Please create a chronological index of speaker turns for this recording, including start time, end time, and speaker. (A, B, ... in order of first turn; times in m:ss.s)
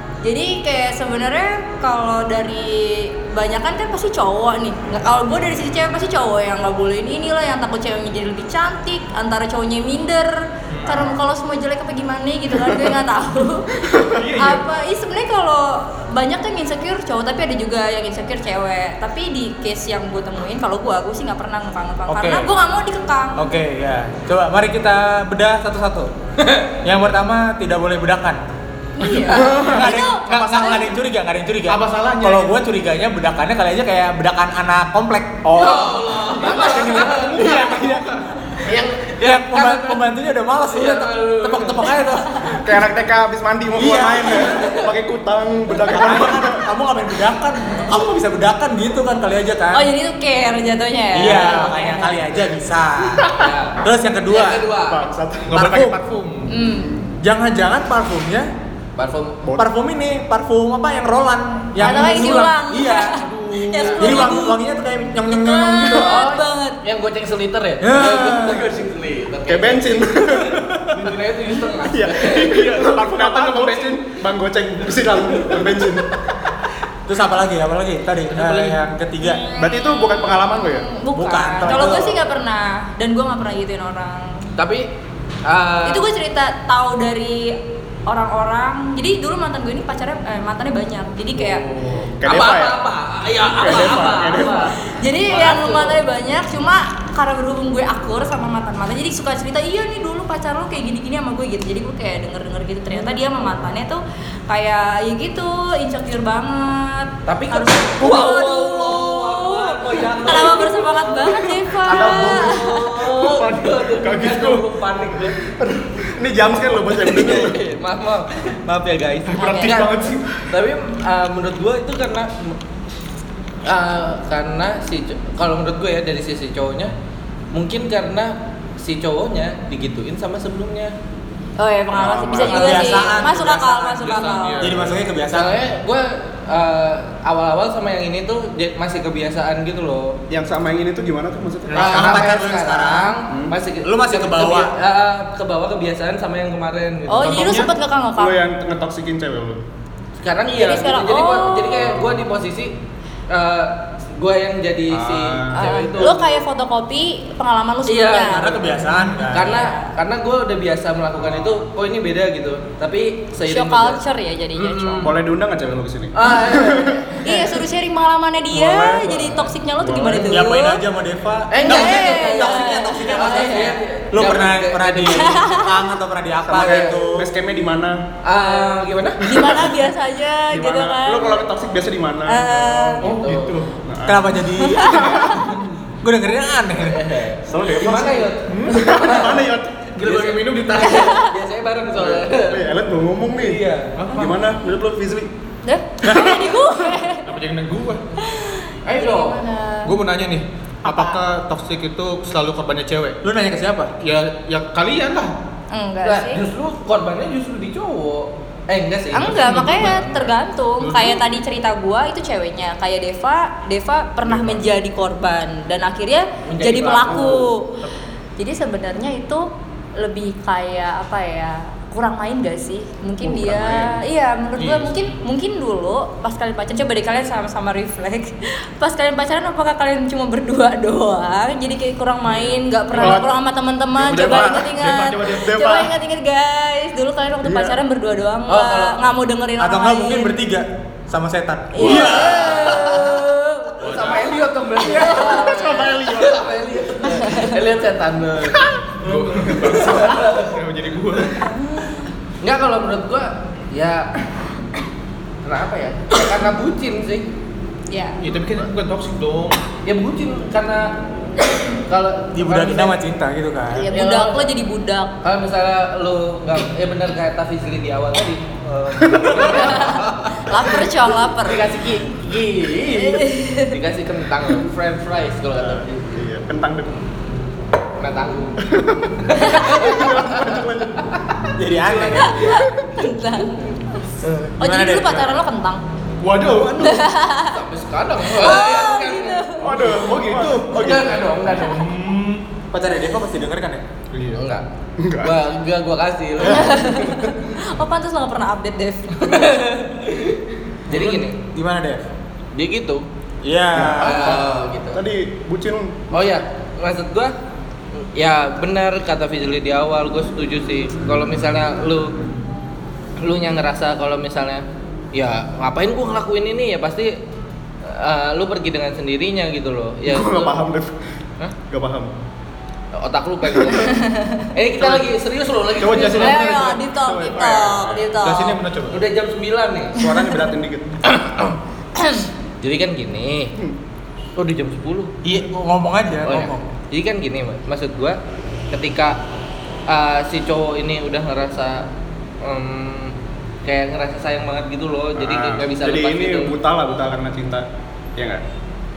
0:00.2-0:23.4 A
0:10.7-0:11.1 B
0:13.9-0:14.2 C
0:14.2-0:14.6 B
0:22.1-0:22.5 D
0:23.4-0:26.1 D
0:26.4-0:26.7 E
0:26.8-0:28.4 D
0:29.0-0:30.9 A
0:29.3-0:29.8 C
0:29.6-0:35.7 D
0:31.7-0:32.6 B
0:35.4-0:36.4 C
0:35.5-0:37.5 E
0:36.4-0:38.2 B
0:36.6-0:38.2 D
0:38.6-0:40.0 E
0:39.2-0:42.6 D
0:40.6-0:41.8 E
0:42.5-0:46.6 C
0:43.7-0:44.6 D
0:44.3-0:44.9 E
0:45.8-0:49.8 D
0:49.7-0:52.2 A
0:51.1-0:54.6 D
0:53.3-0:55.0 E
0:54.8-0:55.7 C
0:55.5-0:56.5 B
0:55.5-0:56.0 D
0:56.5-0:56.9 A
0:57.2-0:58.5 D
0:59.0-0:59.4 E
0:59.5-1:03.2 D
1:01.8-1:04.6 A
1:03.2-1:04.4 E
1:04.0-1:06.3 D
1:05.3-1:06.8 A
1:05.9-1:12.7 E
1:07.8-1:08.6 D
1:09.5-1:10.8 C
1:11.9-1:16.2 C
1:12.4-1:14.0 B
1:17.1-1:19.4 D
1:18.3-1:18.7 B
1:19.2-1:24.4 A
1:19.6-1:20.9 C
1:21.1-1:22.2 D
1:21.7-1:21.9 C
1:24.6-1:24.9 E
1:25.4-1:26.0 E
1:25.8-1:31.6 A
1:31.4-1:36.0 E
1:32.2-1:32.8 C
1:33.5-1:34.7 C
1:33.7-1:52.8 A
1:47.2-1:55.4 E
1:51.9-1:52.6 B
1:51.9-1:52.4 C
1:53.2-1:54.6 B
1:54.1-1:54.4 C
1:55.4-1:57.6 C
1:57.0-2:02.6 E
1:59.3-2:00.4 B
1:59.4-1:59.8 A
2:03.6-2:06.9 E
2:07.5-2:10.9 E
2:11.6-2:14.7 A
2:11.9-2:13.1 C
2:12.3-2:15.6 D
2:14.0-2:15.0 B
2:15.3-2:20.2 E
2:20.3-2:22.3 C
2:21.7-2:23.2 D
2:21.7-2:27.7 E
2:23.8-2:24.7 D
2:27.1-2:28.4 A
2:27.2-2:27.7 B
2:28.2-2:29.6 C
2:30.2-2:32.8 E
2:30.5-2:32.2 A
2:33.3-2:36.4 E
2:34.9-2:36.1 C
2:35.5-2:39.9 A
2:37.8-2:38.7 E
2:38.2-2:39.5 D
2:39.3-2:44.0 E
2:43.4-2:45.2 A
2:44.5-2:45.1 E
2:45.0-2:47.4 C
2:46.1-2:47.5 E
2:47.2-2:50.8 A
2:48.6-2:49.2 D
2:49.8-2:50.4 C
2:50.0-2:57.3 D
2:51.5-2:55.5 E
2:51.6-2:53.8 A
2:55.1-2:55.8 A
2:56.5-2:58.0 C
2:56.5-2:57.2 E
2:58.2-2:59.5 E
2:58.4-3:01.4 A
2:59.3-2:59.7 C
3:00.5-3:03.0 C
3:02.2-3:03.2 A
3:03.0-3:03.6 E
3:03.0-3:03.7 B
3:03.8-3:05.3 C
3:04.0-3:05.4 D
3:04.6-3:05.1 A
3:06.0-3:07.0 D
3:06.8-3:09.5 E
3:07.4-3:09.8 C
3:08.5-3:08.9 B
3:09.9-3:11.2 B
3:10.0-3:12.7 E
3:10.8-3:11.3 A
3:12.0-3:15.3 C
3:13.3-3:14.0 E
3:14.0-3:14.4 B
3:15.6-3:17.3 A
3:16.0-3:16.4 D
3:16.1-3:16.4 C
3:17.2-3:18.0 B
3:18.2-3:19.9 A
3:18.8-3:19.4 E
3:19.8-3:23.2 B
3:20.9-3:21.1 A
3:23.2-3:23.9 D
3:24.0-3:25.3 B
3:25.7-3:26.4 A
3:26.0-3:29.8 E
3:29.1-3:37.8 A
3:29.2-3:31.2 B
3:36.4-3:37.5 E
3:38.4-4:00.4 A
3:43.4-3:43.8 C
3:44.6-3:44.9 B
3:52.9-3:53.2 B
3:52.9-3:53.3 C
3:54.0-3:55.9 B
3:54.1-3:54.5 C
3:57.4-3:57.8 C
3:58.5-3:59.0 E
3:59.6-4:02.8 D
4:01.7-4:03.8 A
4:01.8-4:03.3 E
4:02.1-4:02.6 B
4:03.8-4:10.5 E
4:03.8-4:04.4 B
4:04.8-4:06.1 A
4:07.2-4:07.6 A
4:09.0-4:11.4 B
4:11.4-4:12.1 A
4:12.4-4:14.1 E
4:15.4-4:17.3 E
4:17.9-4:18.2 A
4:18.2-4:19.6 B
4:19.8-4:21.0 E
4:21.6-4:23.0 E
4:22.3-4:23.9 D
4:23.8-4:25.1 A
4:23.8-4:24.5 E
4:25.2-4:30.8 E
4:29.0-4:29.5 C
4:29.4-4:31.7 A
4:31.4-4:36.1 E
4:32.9-4:33.8 A
4:35.6-4:37.0 C
4:38.0-4:38.6 E
4:38.6-4:41.5 C
4:39.2-4:40.6 E
4:41.6-4:42.4 D
4:41.8-4:42.6 E
4:42.2-4:44.0 A
4:44.6-4:45.4 D
4:44.6-4:45.8 A
4:46.2-4:47.0 B
4:46.7-4:47.6 A
4:47.4-4:50.1 E
4:48.3-4:49.7 A
4:49.6-4:51.2 C
4:49.7-4:52.5 B
4:50.6-4:51.9 E
4:52.7-4:53.8 D
4:54.1-4:54.4 B
4:54.3-4:54.6 E
4:55.0-4:55.3 C
4:55.2-4:57.1 E
4:56.4-4:59.7 A
4:59.2-5:01.4 E
5:00.9-5:02.0 D
5:02.5-5:03.0 E
5:03.4-5:04.4 D
5:03.7-5:06.0 C
5:04.0-5:05.0 E
5:06.1-5:07.3 E
5:08.0-5:12.1 E
5:13.2-5:17.2 E
5:17.8-5:20.6 E
5:20.0-5:20.9 C
5:21.7-5:22.1 C
5:22.9-5:23.9 E
5:23.7-5:24.5 A
5:24.5-5:26.4 E
5:25.8-5:26.8 B
5:25.8-5:28.0 C
5:25.9-5:28.6 A
5:28.2-5:29.0 B
5:28.9-5:30.0 E
5:30.0-5:31.0 C
5:31.0-5:31.6 E
5:31.9-5:32.3 A
5:32.6-5:33.5 E
5:34.4-5:35.1 E
5:35.2-5:36.6 D
5:36.2-5:38.2 E
5:38.7-5:39.2 E
5:39.9-5:41.9 E
5:42.4-5:46.5 E
5:45.2-5:47.6 C
5:48.2-5:48.4 C